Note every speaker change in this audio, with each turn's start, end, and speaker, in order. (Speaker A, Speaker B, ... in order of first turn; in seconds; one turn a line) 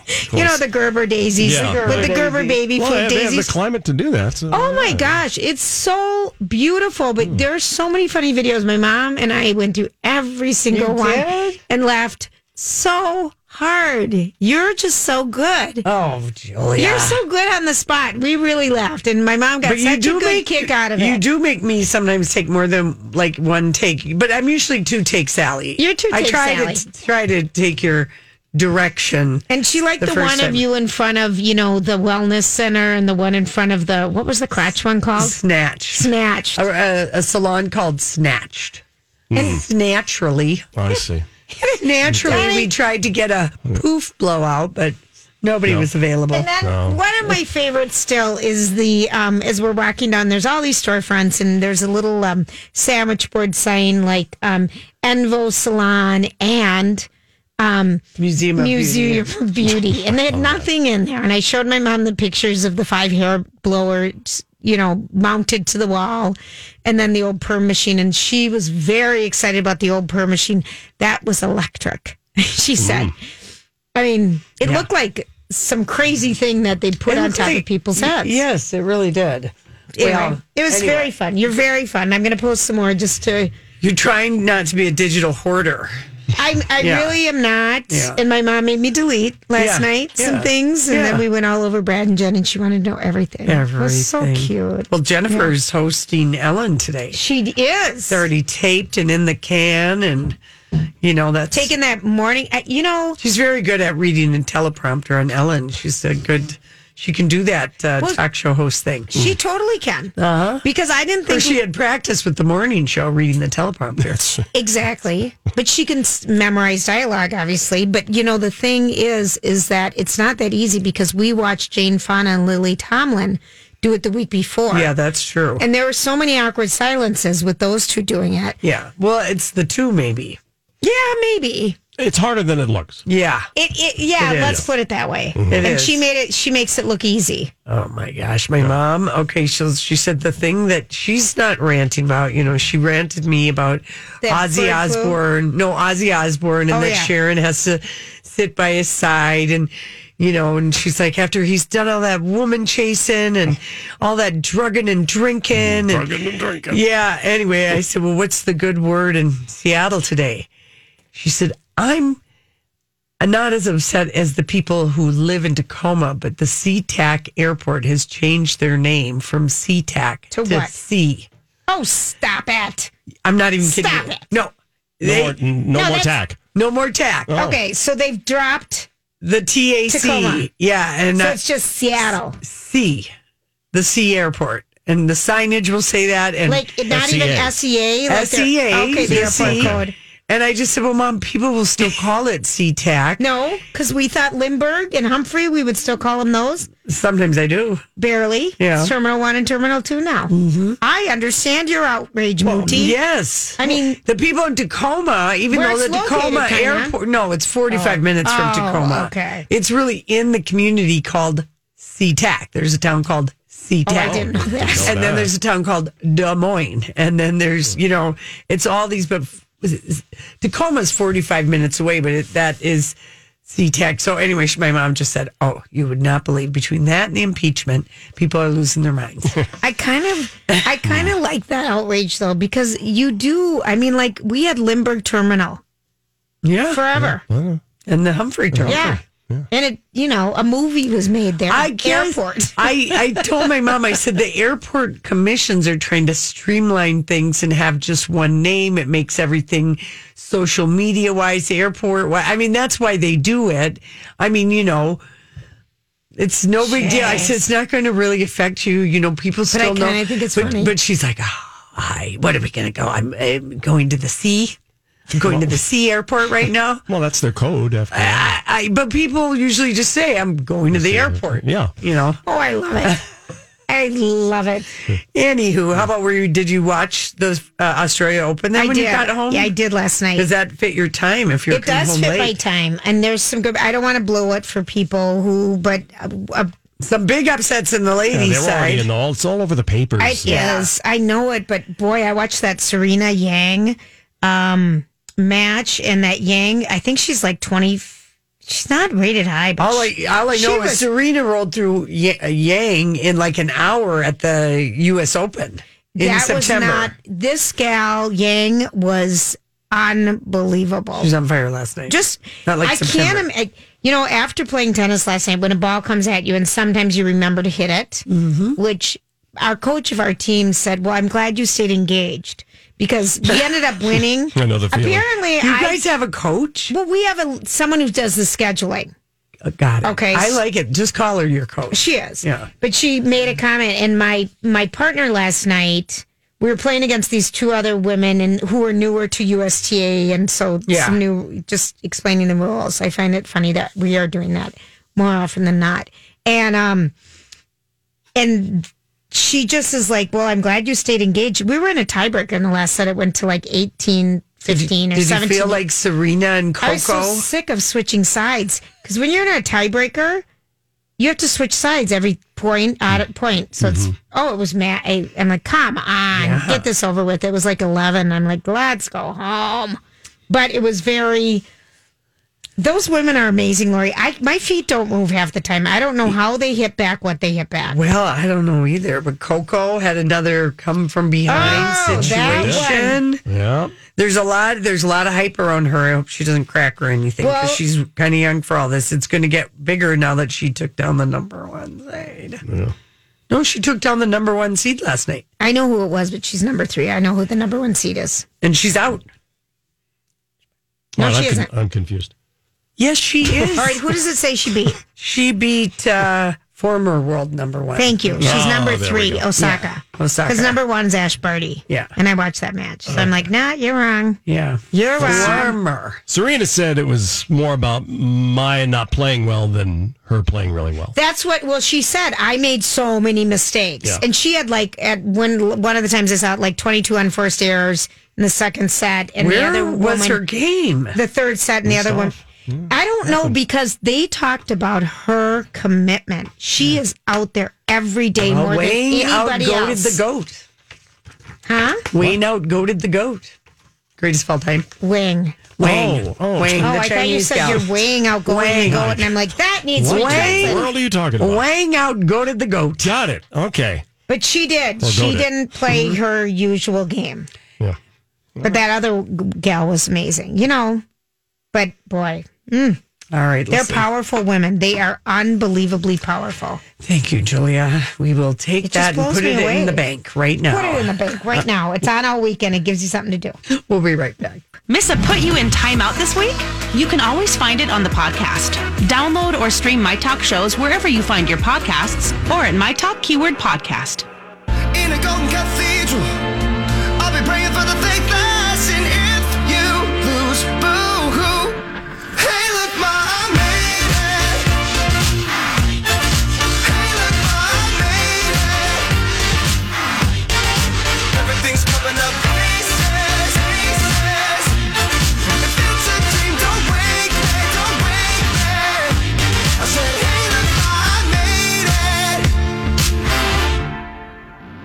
Speaker A: 0.3-0.6
Speaker B: 0.3-3.6
Speaker A: 1.4-2.2
Speaker C: 1.4-2.6
Speaker A: 2.7-5.2
Speaker B: 4.5-15.8
Speaker C: 10.7-11.6
Speaker C: 15.8-17.2
Speaker B: 16.8-21.2
Speaker C: 19.6-29.4
Speaker B: 25.8-26.8
Speaker B: 29.5-35.4
Speaker C: 30.0-30.6
Speaker C: 35.1-38.8
Speaker B: 35.9-36.6
Speaker A: 39.3-39.6
Speaker C: 39.3-40.7
Speaker A: 40.8-41.2
Speaker C: 41.6-46.5
Speaker A: 42.1-42.4
Speaker B: 42.1-42.7
Speaker B: 46.3-57.1
Speaker A: 46.6-47.0
Speaker B: 57.6-58.0
Speaker C: 58.1-59.3
Speaker B: 58.5-73.1
Speaker A: 60.3-60.6
Speaker A: 72.8-73.1
Speaker B: 73.9-78.4
Speaker C: 77.1-81.1
Speaker B: 79.9-83.5
Speaker C: 83.8-86.0
Speaker B: 86.4-95.5
Speaker C: 86.8-87.2
Speaker C: 87.9-88.2
Speaker C: 89.5-91.2
Speaker C: 93.5-97.2
Speaker B: 97.1-98.2
Speaker C: 98.1-100.4
Speaker C: 101.0-101.7
Speaker B: 101.5-103.2
Speaker C: 103.2-109.1
Speaker B: 109.1-111.6
Speaker C: 110.2-110.6
Speaker C: 111.2-114.3
Speaker B: 114.5-124.9
Speaker C: 124.7-125.6
Speaker B: 125.6-128.6
Speaker C: 128.6-130.4
Speaker B: 130.8-131.8
Speaker A: 132.0-133.0
Speaker C: 133.1-133.5
Speaker B: 133.5-137.5
Speaker A: 134.2-134.6
Speaker C: 134.3-134.6
Speaker A: 135.3-135.7
Speaker C: 135.5-136.1
Speaker C: 137.7-156.1
Speaker B: 144.2-145.2
Speaker B: 146.7-147.1
Speaker A: 155.6-156.8
Speaker C: 156.7-160.5
Speaker C: 161.1-162.2
Speaker C: 163.2-171.3
Speaker B: 170.3-170.7
Speaker B: 171.7-172.9
Speaker C: 173.2-175.4
Speaker B: 173.6-174.3
Speaker A: 175.0-176.4
Speaker B: 175.7-176.2
Speaker C: 176.5-177.3
Speaker A: 177.3-177.6
Speaker B: 177.3-178.9
Speaker C: 179.2-181.4
Speaker B: 179.9-180.4
Speaker B: 181.2-182.4
Speaker C: 182.0-183.1
Speaker C: 183.7-186.6
Speaker B: 186.5-189.9
Speaker A: 186.9-187.5
Speaker C: 188.1-193.2
Speaker A: 189.0-189.8
Speaker B: 193.2-196.7
Speaker C: 196.8-197.8
Speaker B: 198.0-203.0
Speaker C: 198.6-198.9
Speaker C: 200.3-200.8
Speaker C: 202.4-222.9
Speaker B: 203.6-204.0
Speaker B: 205.5-206.9
Speaker B: 207.7-209.4
Speaker B: 213.8-215.0
Speaker A: 213.9-215.3
Speaker C: 223.4-229.4
Speaker B: 229.6-235.6
Speaker C: 236.4-236.8
Speaker B: 236.7-237.2
Speaker A: 236.9-237.6
Speaker C: 237.9-238.9
Speaker A: 238.5-239.5
Speaker B: 238.7-242.6
Speaker C: 241.5-255.0
Speaker C: 256.1-264.6
Speaker B: 256.6-257.4
Speaker B: 259.5-260.7
Speaker C: 265.1-266.8
Speaker A: 265.2-265.6
Speaker A: 266.9-268.3
Speaker C: 267.9-272.2
Speaker A: 270.7-271.7
Speaker B: 272.2-273.0
Speaker B: 273.7-274.7
Speaker C: 275.1-279.5
Speaker B: 278.5-280.3
Speaker C: 280.1-282.4
Speaker B: 281.5-286.5
Speaker C: 286.8-288.9
Speaker A: 288.1-290.6
Speaker B: 290.0-300.9
Speaker C: 290.3-290.6
Speaker C: 299.6-306.9
Speaker B: 306.0-311.1
Speaker C: 310.9-313.3
Speaker B: 311.9-318.1
Speaker C: 318.1-318.6
Speaker B: 318.6-325.8
Speaker C: 323.2-323.6
Speaker A: 324.3-325.1
Speaker C: 325.4-326.7
Speaker B: 326.7-328.9
Speaker C: 329.4-332.5
Speaker B: 329.8-330.4
Speaker B: 331.7-346.9
Speaker C: 340.7-341.0
Speaker B: 348.1-355.6
Speaker C: 354.4-357.3
Speaker B: 356.6-360.2
Speaker B: 361.0-371.4
Speaker A: 363.6-363.9
Speaker C: 366.1-366.6
Speaker B: 372.6-377.8
Speaker C: 377.7-383.2
Speaker B: 381.3-383.0
Speaker A: 381.3-382.7
Speaker A: 383.3-383.8
Speaker C: 383.8-392.4
Speaker B: 387.2-387.6
Speaker A: 392.4-392.7
Speaker C: 393.3-395.2
Speaker B: 395.4-398.3
Speaker C: 398.4-399.1
Speaker A: 400.9-402.1
Speaker B: 401.0-401.5
Speaker C: 402.8-403.8
Speaker B: 403.5-404.8
Speaker C: 404.9-408.4
Speaker B: 407.8-414.2
Speaker A: 408.2-409.3
Speaker C: 409.4-410.6
Speaker C: 414.2-416.0
Speaker B: 414.7-415.6
Speaker A: 415.0-415.5
Speaker A: 416.1-420.9
Speaker B: 420.9-430.2
Speaker C: 429.2-431.0
Speaker B: 430.9-432.1
Speaker A: 431.6-433.3
Speaker B: 432.7-440.0
Speaker C: 438.2-440.4
Speaker B: 441.4-441.9
Speaker C: 441.9-443.3
Speaker C: 444.0-444.7
Speaker B: 444.8-445.5
Speaker C: 445.6-447.7
Speaker A: 445.6-446.7
Speaker B: 446.6-450.8
Speaker C: 448.2-449.0
Speaker A: 448.7-449.0
Speaker A: 449.8-451.4
Speaker C: 449.8-453.0
Speaker A: 452.8-453.9
Speaker B: 454.1-457.3
Speaker A: 454.8-455.3
Speaker C: 455.7-456.0
Speaker B: 458.4-460.8
Speaker B: 461.5-462.8
Speaker C: 463.1-463.8
Speaker B: 463.5-466.6
Speaker C: 466.8-471.4
Speaker B: 468.6-469.8
Speaker B: 470.5-473.4
Speaker C: 473.5-474.4
Speaker D: 474.7-484.1
Speaker E: 484.7-486.2
Speaker E: 487.0-491.6
Speaker E: 492.1-494.5
Speaker E: 496.6-499.0
Speaker E: 501.1-504.6
Speaker E: 505.3-512.3